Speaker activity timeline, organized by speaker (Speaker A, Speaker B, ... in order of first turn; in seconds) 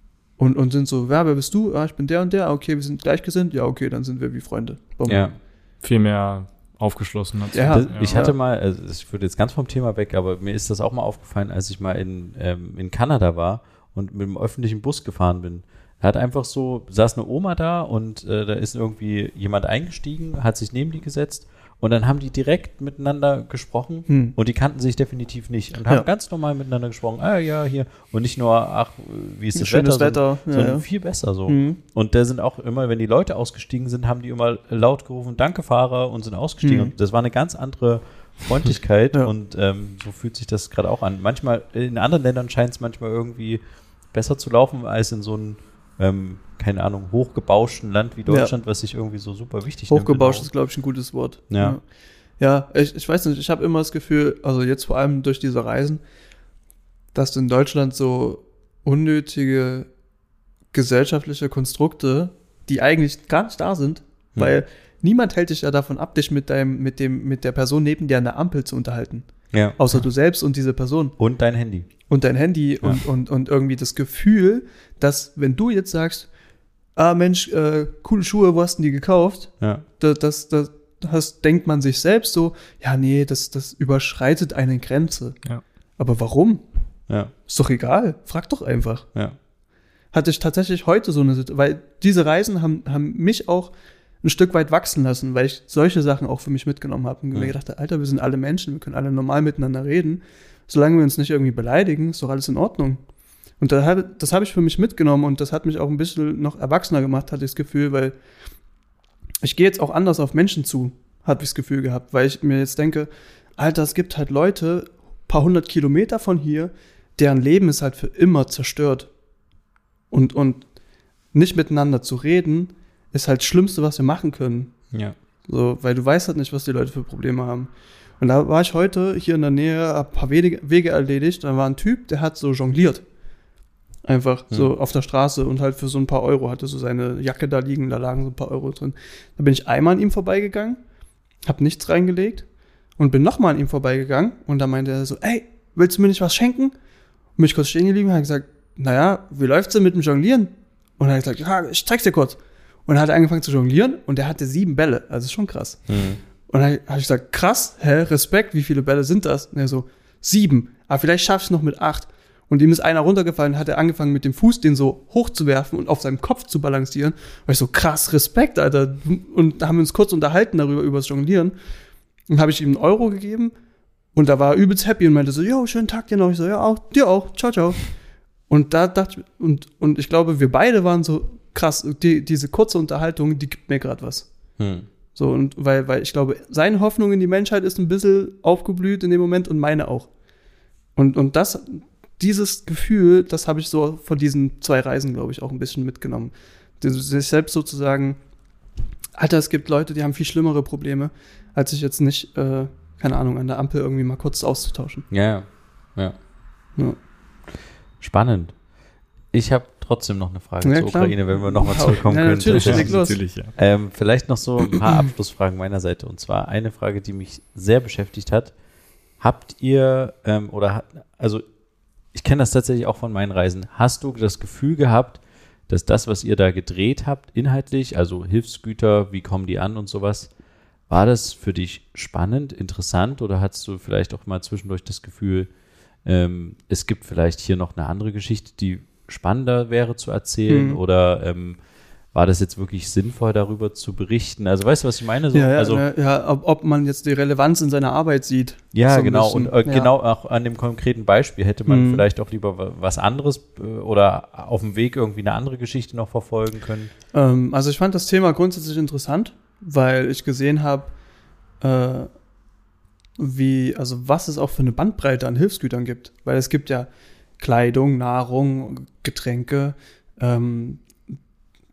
Speaker A: 0.4-5.3, 7.5-8.3, 24.1-24.4, 29.6-30.9, 31.5-31.8, 36.6-36.9, 48.3-48.5, 49.9-51.8, 52.4-56.0, 57.1-59.9, 60.7-71.2, 72.1-76.3, 77.0-85.4, 86.0-86.6, 87.5-89.1, 90.1-103.0, 103.6-108.2, 109.4-119.1, 120.1-120.7, 121.3-124.8, 125.5-133.0, 134.1-140.8, 141.5-142.5, 143.0-146.7, 147.4-155.8, 156.5-171.6, 172.3-173.5, 174.1-177.9, 178.5-184.3, 185.2-190.1, 191.0-198.2, 199.2-205.1, 210.6-213.2, 240.5-240.8, 245.3-249.9, 251.7-252.1, 257.1-260.9, 261.6-262.1, 263.2-270.8
Speaker B: 5.1-5.4, 7.7-50.5, 51.5-51.8, 69.5-69.8, 71.2-71.9, 79.6-79.8, 124.9-125.2, 155.9-156.2, 184.6-184.9, 205.1-206.2, 208.0-208.6, 209.3-218.6, 219.2-221.4, 222.1-230.3, 230.9-235.5, 236.0-241.6, 242.1-245.8, 248.7-256.9
Speaker C: 5.8-8.2, 212.4-213.5